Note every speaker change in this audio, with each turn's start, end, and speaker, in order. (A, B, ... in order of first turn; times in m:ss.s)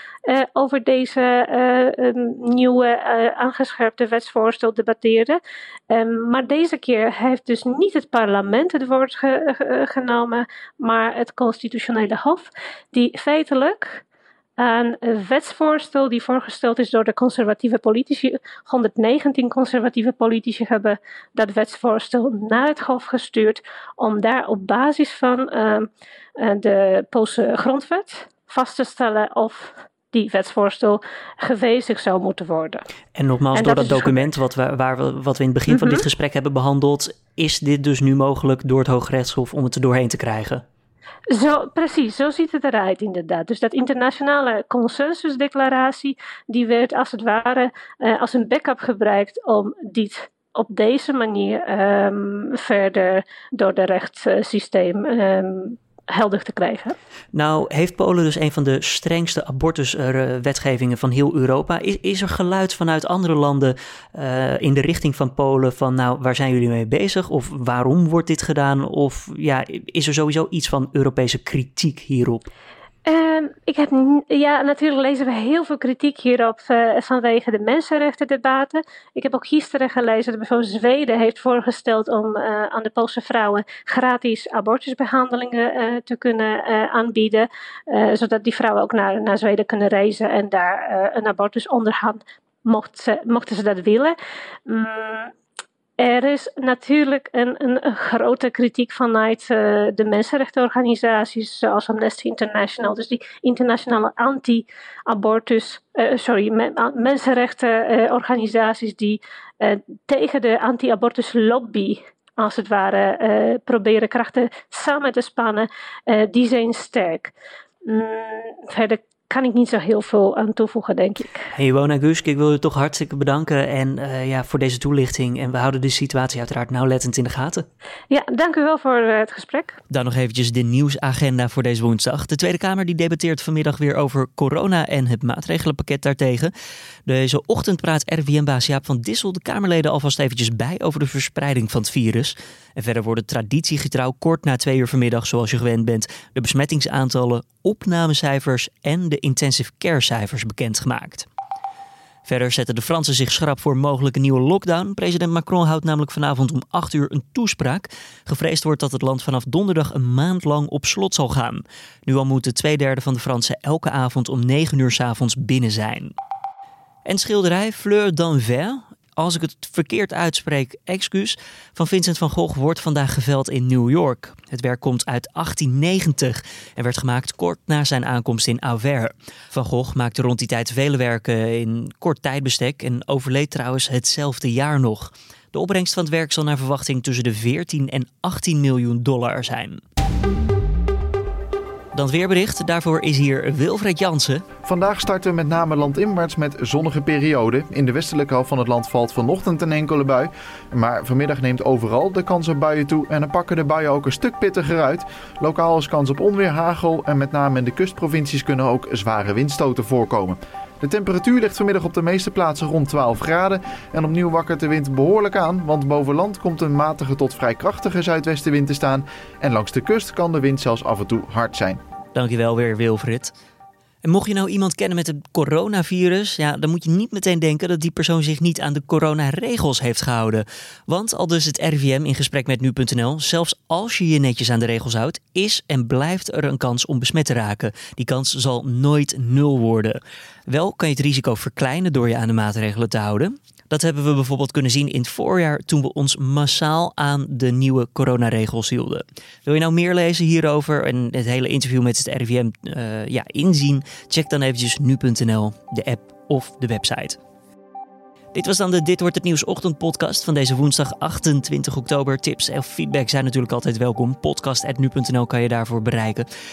0:00.2-0:14.0 A
0:14.6-0:32.8 A
0:33.1-0:40.6 B
0:33.5-0:34.3 A
0:35.7-0:36.0 A
0:41.3-0:57.0 A
0:57.3-1:12.5 B
1:13.0-1:35.3 A
1:36.0-1:57.3 A
1:57.8-2:01.5 A
2:01.5-2:07.6 B
2:08.1-2:09.8 A
2:09.9-2:16.5 B
2:17.0-2:31.3 B
2:32.2-2:46.1 B
2:47.0-3:09.8 B
3:11.9-3:14.4 B
3:14.6-3:41.8 C
3:42.1-3:43.3 B
3:44.0-4:17.2 B
4:18.3-4:26.3 B